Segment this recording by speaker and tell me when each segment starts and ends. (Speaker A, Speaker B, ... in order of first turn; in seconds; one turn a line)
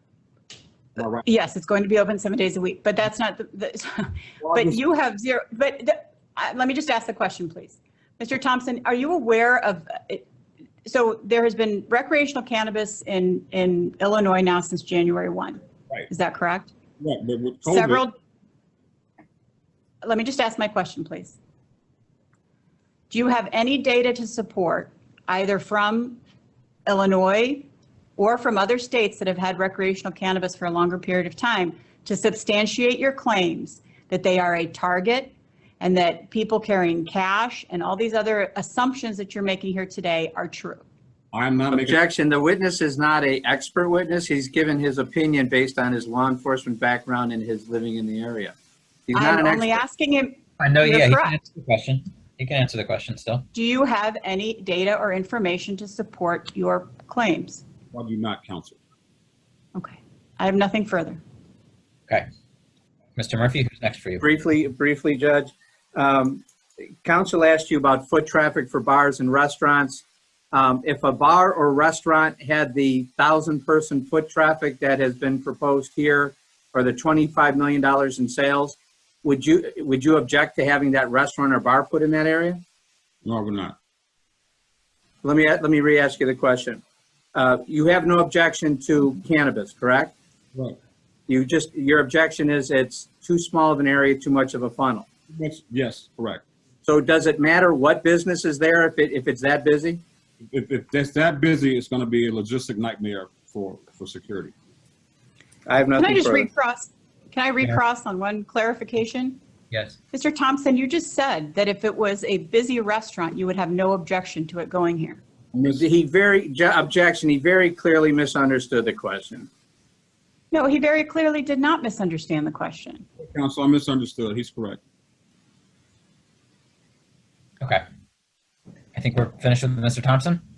Speaker A: 1.0-1.2
Speaker B: 1.2-10.2
Speaker A: 4.4-4.8
Speaker B: 10.8-16.7
Speaker A: 17.0-18.0
Speaker B: 17.7-18.1
Speaker B: 20.0-21.4
Speaker B: 23.1-26.2
Speaker B: 26.9-40.8
Speaker A: 41.3-42.0
Speaker C: 41.7-48.5
Speaker C: 49.1-49.8
Speaker B: 49.1-51.4
Speaker D: 50.6-53.4
Speaker B: 53.5-57.6
Speaker A: 57.9-58.8
Speaker B: 59.7-61.2
Speaker D: 63.1-64.2
Speaker C: 64.2-66.4
Speaker C: 67.0-82.6
Speaker A: 83.2-83.8
Speaker C: 85.2-86.8
Speaker C: 87.3-90.1
Speaker C: 91.3-95.1
Speaker A: 95.3-96.4
Speaker C: 96.8-100.0
Speaker A: 100.4-104.5
Speaker C: 105.7-106.5
Speaker B: 106.0-109.4
Speaker D: 109.7-110.0
Speaker B: 110.1-115.2
Speaker A: 115.5-115.8
Speaker C: 115.7-119.5
Speaker B: 120.5-123.0
Speaker A: 123.2-124.8
Speaker D: 128.9-130.4